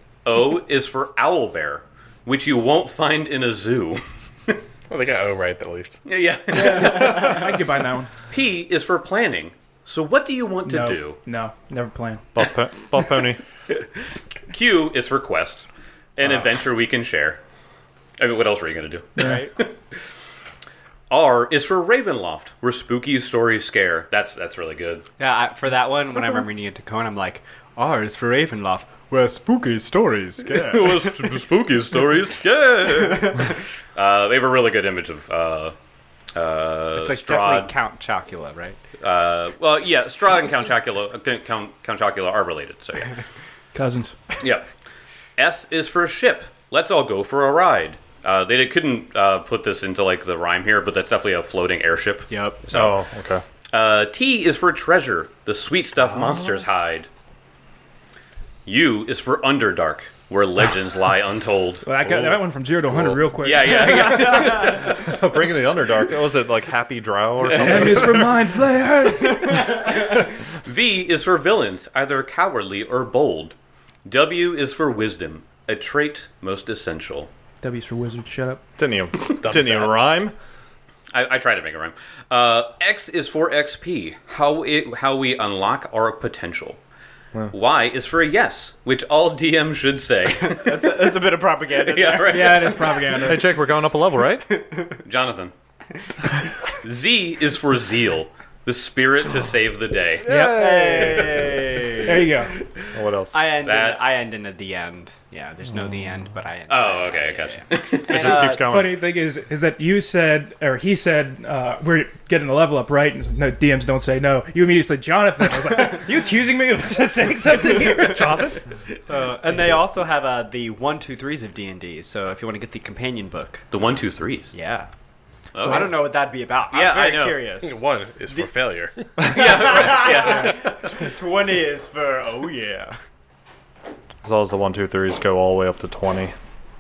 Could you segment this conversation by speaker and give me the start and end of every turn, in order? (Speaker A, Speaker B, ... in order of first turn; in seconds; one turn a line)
Speaker A: 0.2-4.6
Speaker B: 4.9-6.0
Speaker A: 6.1-7.5
Speaker C: 6.6-8.2
Speaker A: 8.3-11.2
Speaker C: 10.7-12.3
Speaker D: 12.3-13.4
Speaker A: 13.7-14.0
Speaker A: 14.5-17.4
Speaker A: 18.2-19.7
Speaker E: 19.2-19.5
Speaker C: 19.2-19.4
Speaker A: 21.1-25.1
Speaker E: 25.2-31.2
Speaker A: 30.5-35.8
Speaker E: 33.0-33.5
Speaker A: 36.4-37.7
Speaker E: 37.0-38.8
Speaker A: 39.0-43.2
Speaker C: 43.7-44.2
Speaker A: 44.4-44.7
Speaker A: 45.4-53.0
Speaker E: 52.3-52.6
Speaker D: 52.7-53.4
Speaker A: 53.7-57.1
Speaker A: 58.7-61.9
Speaker C: 61.9-64.5
Speaker A: 63.4-65.1
Speaker D: 64.9-68.4
Speaker A: 67.5-67.9
Speaker C: 67.5-70.0
Speaker A: 70.6-77.3
Speaker C: 77.6-78.6
Speaker D: 78.8-80.3
Speaker B: 79.4-80.1
Speaker A: 81.1-86.8
Speaker A: 87.5-91.0
Speaker E: 90.2-93.4
Speaker A: 91.8-93.0
Speaker C: 92.3-93.4
Speaker D: 93.2-94.5
Speaker E: 94.6-95.0
Speaker A: 95.0-95.5
Speaker A: 96.8-100.3
Speaker C: 100.2-101.2
Speaker E: 100.2-102.3
Speaker D: 100.9-101.3
Speaker C: 102.0-102.5
Speaker D: 102.9-103.3
Speaker E: 103.3-108.7
Speaker A: 103.6-104.0
Speaker A: 106.7-108.4
Speaker D: 108.1-109.0
Speaker C: 108.2-118.5
Speaker D: 118.0-118.6
Speaker E: 119.1-123.7
Speaker A: 123.7-124.5
Speaker E: 124.5-124.9
Speaker A: 125.5-126.0
Speaker E: 125.6-128.5
Speaker A: 126.7-127.4
Speaker B: 127.6-128.9
Speaker A: 129.2-131.1
Speaker E: 129.2-133.0
Speaker D: 134.2-136.3